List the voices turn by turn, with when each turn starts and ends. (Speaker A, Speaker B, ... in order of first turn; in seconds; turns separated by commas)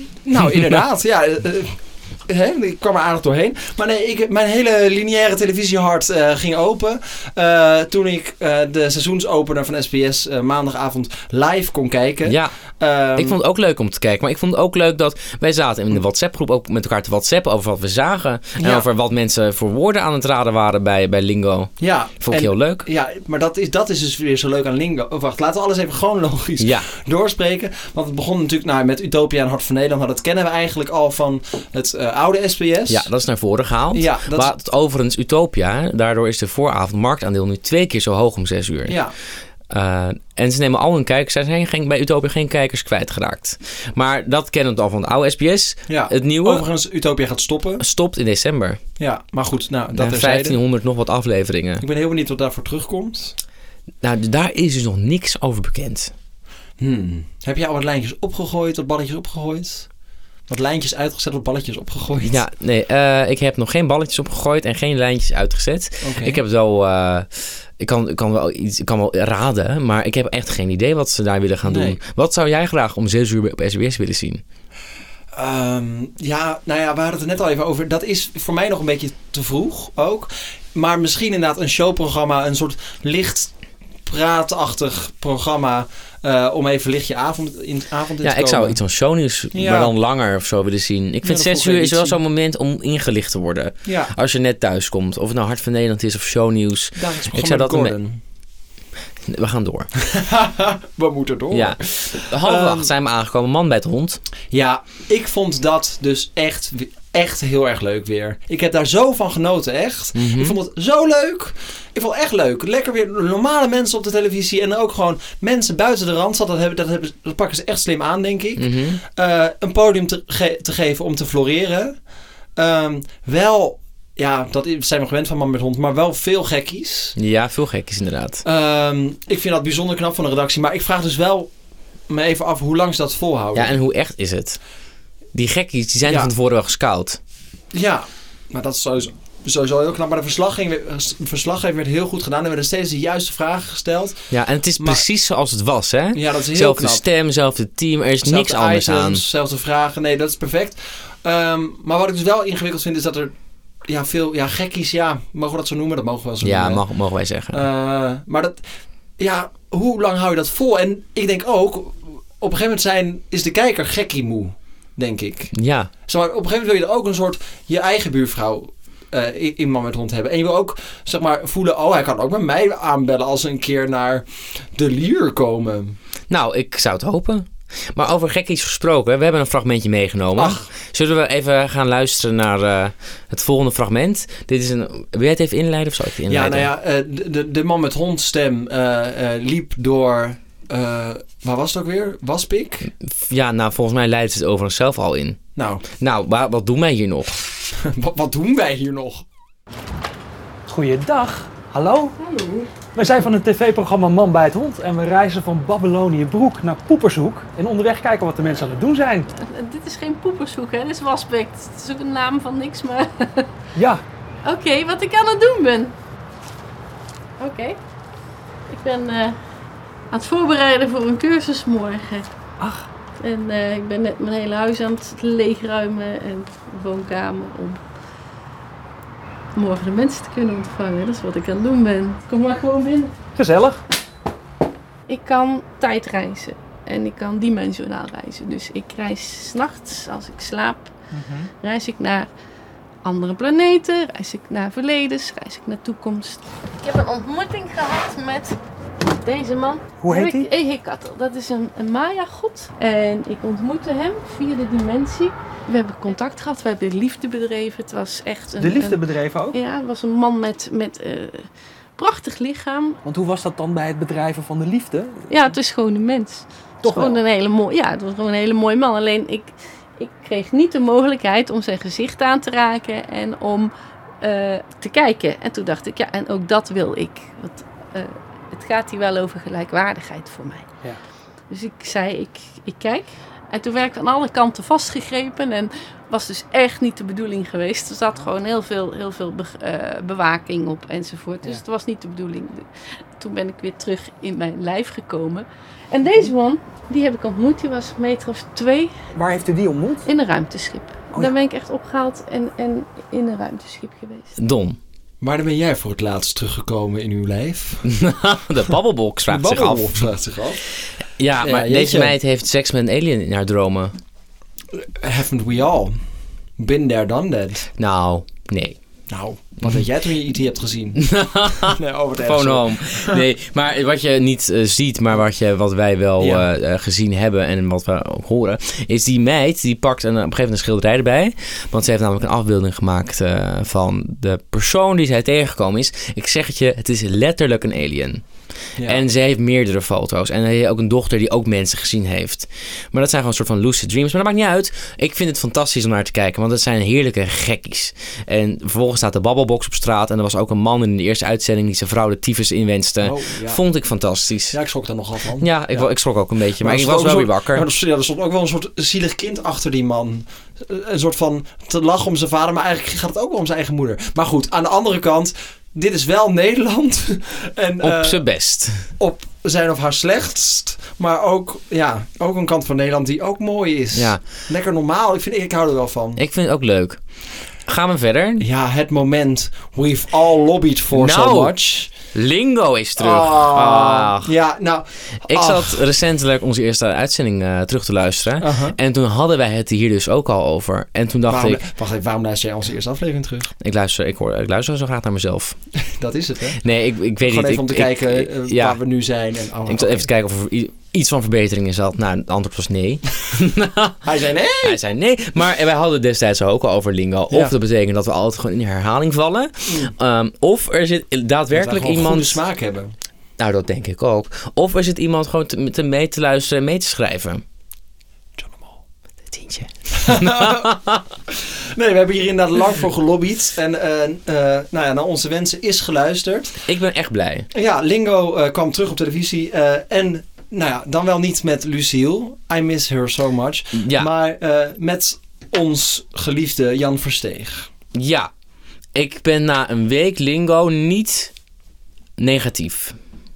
Speaker A: 0.2-13.4, Speaker B: 12.2-12.5, Speaker B: 13.1-22.9, Speaker A: 18.6-18.9, Speaker A: 21.8-33.1, Speaker B: 26.6-26.9, Speaker B: 32.9-39.0, Speaker A: 33.9-34.5, Speaker A: 38.9-39.1, Speaker B: 39.7-46.6, Speaker A: 45.9-47.8, Speaker B: 47.8-48.8, Speaker A: 49.0-50.6, Speaker B: 49.9-51.8, Speaker A: 51.8-53.4, Speaker B: 54.0-56.1, Speaker A: 56.8-59.9, Speaker A: 60.5-62.4, Speaker B: 62.2-67.2, Speaker A: 66.0-66.4, Speaker B: 67.8-74.4, Speaker A: 71.6-72.0, Speaker A: 75.3-83.5, Speaker A: 84.0-88.8, Speaker B: 88.2-97.9, Speaker A: 89.5-89.9, Speaker A: 91.2-92.2, Speaker A: 93.8-94.1, Speaker A: 97.0-98.2, Speaker B: 99.2-99.9, Speaker A: 100.0-102.9, Speaker B: 101.5-104.2, Speaker A: 104.5-122.0, Speaker B: 110.1-110.5, Speaker B: 118.6-119.0, Speaker A: 122.5-127.2, Speaker B: 127.2-128.4, Speaker A: 128.4-131.5, Speaker A: 132.1-133.8, Speaker B: 133.5-134.6, Speaker B: 135.3-137.2, Speaker A: 136.1-136.3, Speaker A: 137.7-145.0, Speaker B: 144.3-149.2, Speaker A: 146.1-147.0, Speaker A: 148.2-153.3, Speaker A: 153.9-156.8, Speaker B: 156.4-157.6, Speaker A: 157.5-158.6, Speaker A: 159.2-165.5, Speaker B: 165.5-165.9, Speaker A: 166.1-176.0, Speaker B: 176.3-186.7, Speaker A: 180.3-180.7, Speaker A: 186.3-192.9, Speaker B: 193.0-195.4, Speaker A: 195.6-195.8, Speaker B: 196.0-197.4, Speaker A: 197.8-199.2, Speaker C: 200.7-202.1, Speaker D: 202.2-202.7, Speaker C: 202.9-209.3, Speaker D: 209.4-213.5, Speaker C: 213.8-214.0, Speaker D: 214.4-215.9, Speaker D: 217.4-217.8, Speaker D: 218.7-219.4, Speaker D: 220.1-222.2, Speaker C: 222.6-222.8, Speaker D: 223.2-227.8, Speaker D: 229.5-233.1, Speaker C: 233.3-233.8, Speaker D: 235.1-240.9, Speaker C: 241.1-241.5, Speaker D: 241.6-242.3, Speaker D: 243.0-248.6, Speaker D: 249.2-259.0, Speaker C: 250.0-250.5, Speaker C: 258.6-259.6, Speaker D: 259.5-263.0, Speaker C: 263.0-265.3, Speaker D: 265.3-273.7, Speaker C: 266.8-267.2, Speaker D: 274.2-280.6, Speaker D: 281.5-298.9, Speaker C: 299.1-300.1, Speaker D: 300.1-304.4, Speaker B: 304.4-304.8, Speaker A: 305.2-307.9, Speaker B: 307.8-310.0, Speaker A: 309.3-310.6, Speaker B: 311.2-313.9, Speaker A: 311.4-312.1, Speaker A: 314.7-316.0, Speaker A: 316.6-317.7, Speaker B: 317.8-318.8, Speaker A: 319.1-323.2, Speaker B: 321.0-338.2, Speaker A: 326.2-326.5, Speaker A: 338.8-339.0, Speaker B: 338.8-354.6, Speaker A: 353.0-353.6, Speaker A: 354.5-355.9, Speaker B: 355.4-357.6, Speaker A: 356.6-368.2, Speaker B: 367.8-368.9, Speaker A: 369.0-376.2, Speaker B: 373.9-374.2, Speaker B: 376.2-377.0, Speaker B: 377.6-378.4, Speaker A: 378.4-381.9, Speaker B: 380.9-381.5, Speaker B: 382.1-384.3, Speaker A: 383.0-385.8, Speaker B: 385.3-391.6, Speaker A: 388.4-388.8, Speaker A: 391.3-393.5, Speaker B: 393.6-395.6, Speaker A: 395.8-396.6, Speaker B: 396.6-398.8, Speaker A: 397.2-400.1, Speaker B: 399.7-404.0, Speaker A: 404.0-404.8, Speaker B: 404.6-412.4, Speaker A: 409.7-409.9, Speaker A: 411.5-412.9, Speaker B: 413.4-417.4, Speaker A: 418.4-418.8, Speaker B: 419.3-421.0, Speaker A: 420.0-420.7, Speaker A: 421.3-426.6, Speaker B: 426.6-427.5, Speaker A: 427.5-437.7, Speaker B: 433.7-434.1, Speaker B: 437.9-438.3, Speaker B: 438.9-441.3, Speaker B: 442.2-442.9